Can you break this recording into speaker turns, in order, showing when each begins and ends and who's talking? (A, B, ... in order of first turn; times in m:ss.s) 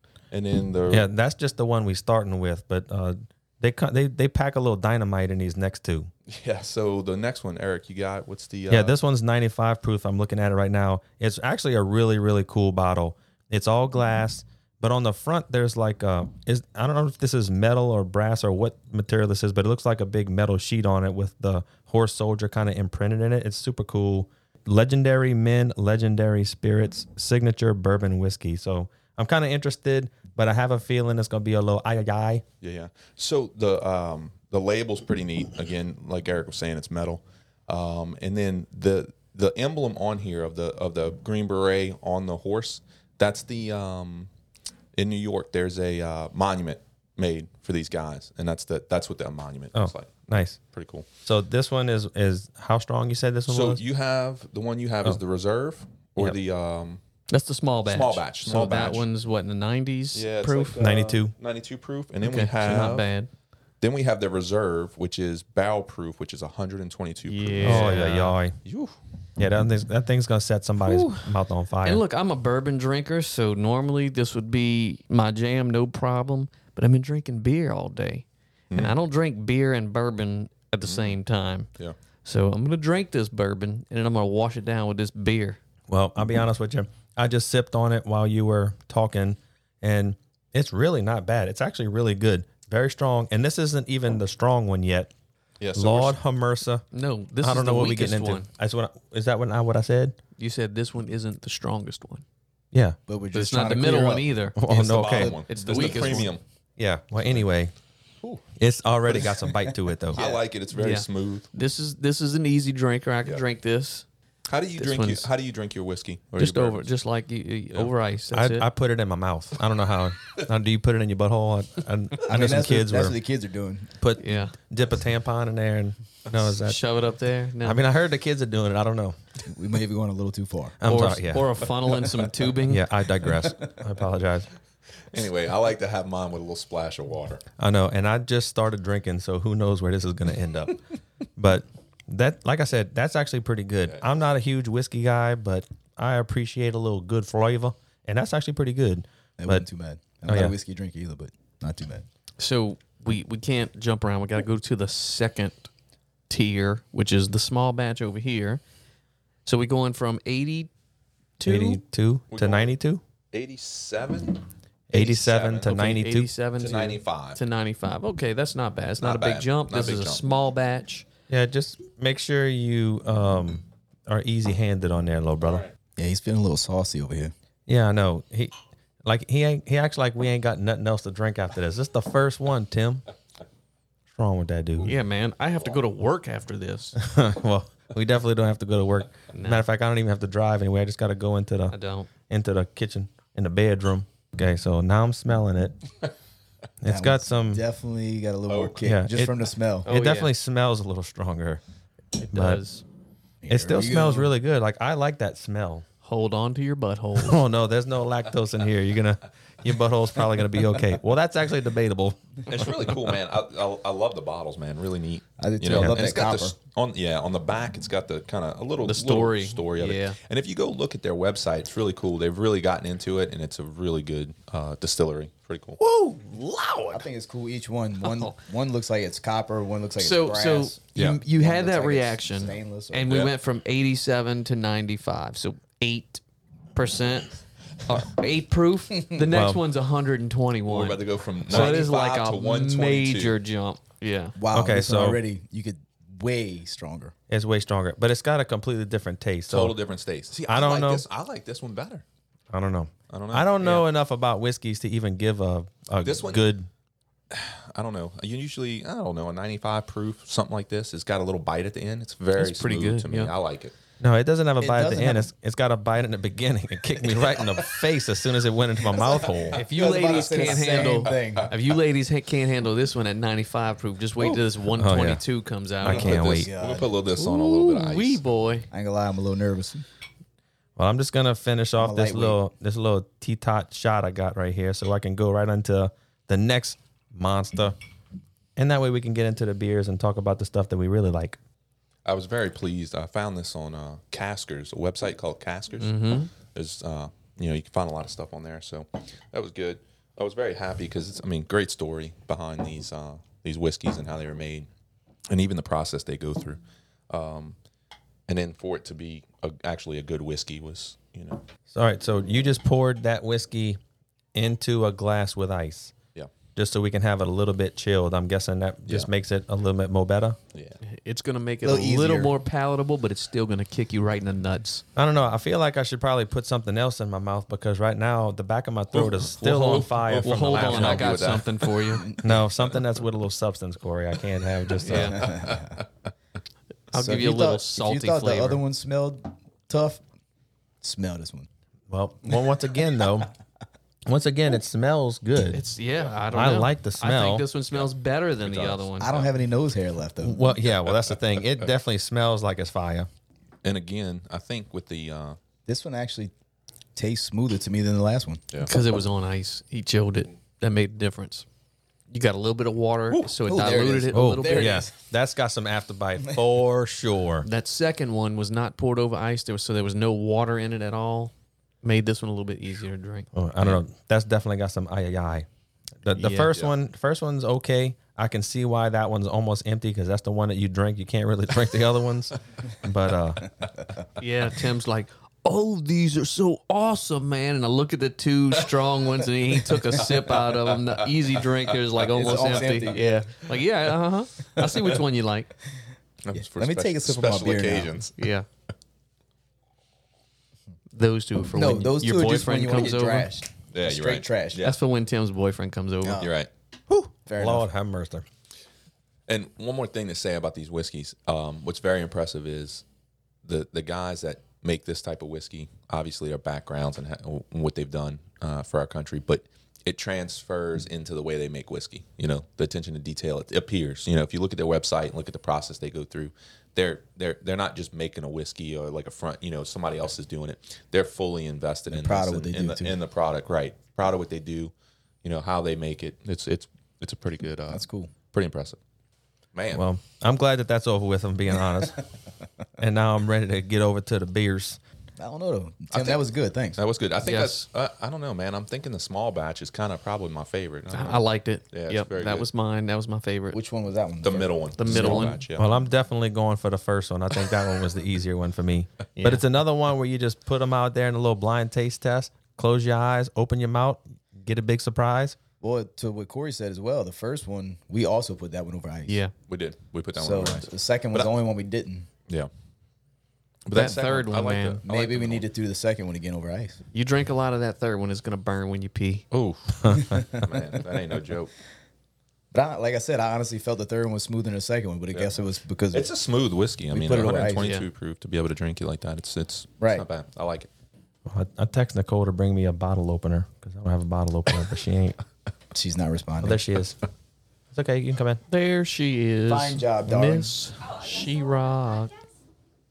0:00.3-0:01.1 A
0:00.9-0:06.1 B
0:06.3-0:08.9 A
0:08.7-0:32.4 B
0:32.6-0:44.3 A
0:45.0-0:50.1 A
0:49.7-0:50.6 B
0:50.7-0:51.0 A
0:51.2-0:53.8 B
0:53.5-0:57.0 A
0:57.3-1:00.8 C
0:57.8-0:59.1 A
1:00.1-1:03.1 A
1:00.8-1:01.3 B
1:02.2-1:03.3 C
1:03.8-1:08.0 A
1:07.3-1:08.3 C
1:07.6-1:08.6 B
1:08.6-1:09.0 A
1:09.4-1:12.0 B
1:10.8-1:11.3 C
1:11.8-1:21.7 C
1:20.8-1:21.2 A
1:22.2-1:25.6 C
1:25.9-1:35.1 B
1:35.6-1:36.2 A
1:35.8-1:36.8 B
1:36.9-1:38.5 C
1:37.4-1:40.2 B
1:40.4-1:42.2 C
1:43.1-1:44.3 D
1:43.3-1:44.6 C
1:44.6-1:45.3 B
1:44.7-1:46.4 A
1:45.2-1:46.3 D
1:45.5-1:46.3 C
1:46.8-1:47.7 B
1:48.6-1:50.2 B
1:50.1-1:50.4 D
1:50.1-1:51.5 A
1:50.7-1:54.0 C
1:54.5-1:56.9 A
1:54.8-1:55.3 C
1:56.3-1:58.7 C
1:58.3-2:03.2 B
2:02.3-2:03.9 D
2:04.0-2:06.8 B
2:04.2-2:04.5 C
2:06.3-2:07.8 C
2:07.6-2:09.2 B
2:09.5-2:10.8 D
2:10.8-2:11.5 B
2:10.9-2:12.9 C
2:12.7-2:14.5 B
2:15.1-2:17.4 A
2:17.6-2:20.8 B
2:21.4-2:29.7 B
2:29.4-2:32.0 D
2:30.3-2:30.5 B
2:32.4-2:35.7 C
2:36.3-2:38.6 C
2:39.4-2:40.7 C
2:41.4-2:41.8 C
2:41.5-2:43.0 B
2:42.3-2:42.7 A
2:43.3-2:44.4 A
2:44.9-2:46.3 B
2:44.9-2:45.8 A
2:45.6-2:51.0 C
2:46.6-2:47.4 A
2:49.0-2:50.2 A
2:51.3-2:55.6 B
2:56.0-2:57.3 D
2:57.7-2:58.5 B
2:59.0-3:03.0 B
3:04.1-3:04.9 B
3:04.8-3:07.0 C
3:07.0-3:11.7 B
3:09.3-3:09.7 C
3:11.7-3:12.1 C
3:12.3-3:15.8 B
3:16.8-3:17.6 B
3:16.8-3:19.9 D
3:18.5-3:18.8 A
3:18.8-3:19.3 B
3:19.8-3:20.3 C
3:19.8-3:21.6 B
3:22.2-3:22.8 C
3:22.3-3:22.6 B
3:23.4-3:24.3 D
3:23.5-3:25.8 B
3:26.0-3:27.4 C
3:27.2-3:32.4 B
3:32.5-3:45.8 A
3:35.4-3:36.5 D
3:38.8-3:40.2 C
3:45.8-3:47.0 B
3:46.9-3:53.2 D
3:48.0-3:48.4 C
3:50.0-3:56.2 C
3:53.1-3:53.3 A
3:56.7-4:04.4 C
3:59.0-3:59.3 D
3:59.3-3:59.6 B
4:00.7-4:03.4 A
4:01.5-4:01.7 B
4:04.4-4:07.1 D
4:04.5-4:05.2 B
4:07.3-4:09.7 B
4:09.5-4:12.0 A
4:10.5-4:11.0 B
4:12.5-4:16.7 B
4:13.1-4:13.8 A
4:16.0-4:16.4 A
4:17.3-4:23.8 A
4:22.4-4:23.3 C
4:24.0-4:29.6 B
4:24.6-4:25.3 D
4:27.1-4:27.6 D
4:28.8-4:31.5 D
4:29.5-4:36.2 C
4:30.0-4:31.4 A
4:34.8-4:35.2 B
4:35.8-4:36.5 B
4:35.8-4:38.2 A
4:35.9-4:36.9 D
4:37.2-4:38.7 C
4:38.7-4:39.8 D
4:40.8-4:47.8 B
4:41.8-4:42.4 D
4:48.6-4:51.4 B
4:52.0-5:04.7 A
4:55.8-4:56.3 C
5:05.3-5:07.6 A
5:08.3-5:11.4 A
5:11.7-5:13.8 B
5:14.3-5:15.9 B
5:16.6-5:20.4 B
5:20.5-5:20.8 A
5:20.8-5:24.8 C
5:21.6-5:22.4 D
5:25.0-5:31.1 B
5:28.9-5:32.1 A
5:30.2-5:32.1 C
5:32.0-5:32.4 D
5:32.2-5:35.2 B
5:34.8-5:35.4 C
5:35.0-5:35.8 A
5:35.2-5:35.8 D
5:36.9-5:38.6 C
5:37.0-5:40.0 D
5:40.8-5:41.5 D
5:41.9-5:43.3 B
5:44.1-5:45.6 B
5:45.5-5:49.1 C
5:46.3-5:47.4 B
5:47.7-5:49.3 A
5:49.0-5:50.6 D
5:50.2-5:53.1 B
5:53.6-5:55.4 A
5:55.7-5:56.3 D
5:57.0-5:58.4 D
5:58.6-6:01.4 C
6:02.1-6:04.8 C
6:03.4-6:05.0 D
6:04.1-6:07.5 B
6:07.4-6:11.3 C
6:11.8-6:13.3 C
6:13.4-6:15.5 B
6:16.0-6:23.5 B
6:16.1-6:16.6 C
6:24.2-6:35.5 C
6:31.4-6:32.7 A
6:32.1-6:33.2 D
6:36.2-6:38.1 A
6:36.3-6:38.0 D
6:38.2-6:38.5 C
6:41.0-6:43.3 C
6:41.5-6:44.7 D
6:43.7-6:44.8 A
6:44.6-6:46.2 C
6:46.0-6:46.3 D
6:46.2-6:46.5 A
6:46.9-6:48.2 B
6:47.2-6:47.7 D
6:49.3-6:52.8 A
6:53.4-7:14.7 A
7:11.9-7:13.0 D
7:15.2-7:18.8 A
7:17.7-7:18.1 D
7:19.5-7:19.8 A
7:19.7-7:22.0 B
7:22.8-7:24.8 B
7:25.2-7:26.8 D
7:25.9-7:26.2 A
7:26.8-7:32.5 A
7:27.2-7:27.6 C
7:30.9-7:33.6 C
7:33.5-7:35.3 D
7:34.2-7:35.7 A
7:34.8-7:35.4 C
7:35.6-7:45.4 B
7:39.2-7:39.4 C
7:45.6-7:49.2 D
7:49.1-7:49.3 C
7:49.5-7:51.3 A
7:50.2-7:52.1 D
7:53.6-7:55.4 A
7:53.7-7:54.8 C
7:54.8-7:56.8 D
7:56.9-7:59.2 C
7:59.3-8:01.5 A
7:59.8-8:00.2 B
8:00.0-8:00.6 D
8:02.5-8:06.1 D
8:05.9-8:10.7 A
8:06.9-8:07.7 D
8:07.6-8:07.9 C
8:09.8-8:10.1 D
8:11.3-8:15.2 B
8:15.7-8:16.6 D
8:16.4-8:17.0 B
8:17.7-8:18.4 B
8:18.5-8:22.1 C
8:19.5-8:20.5 D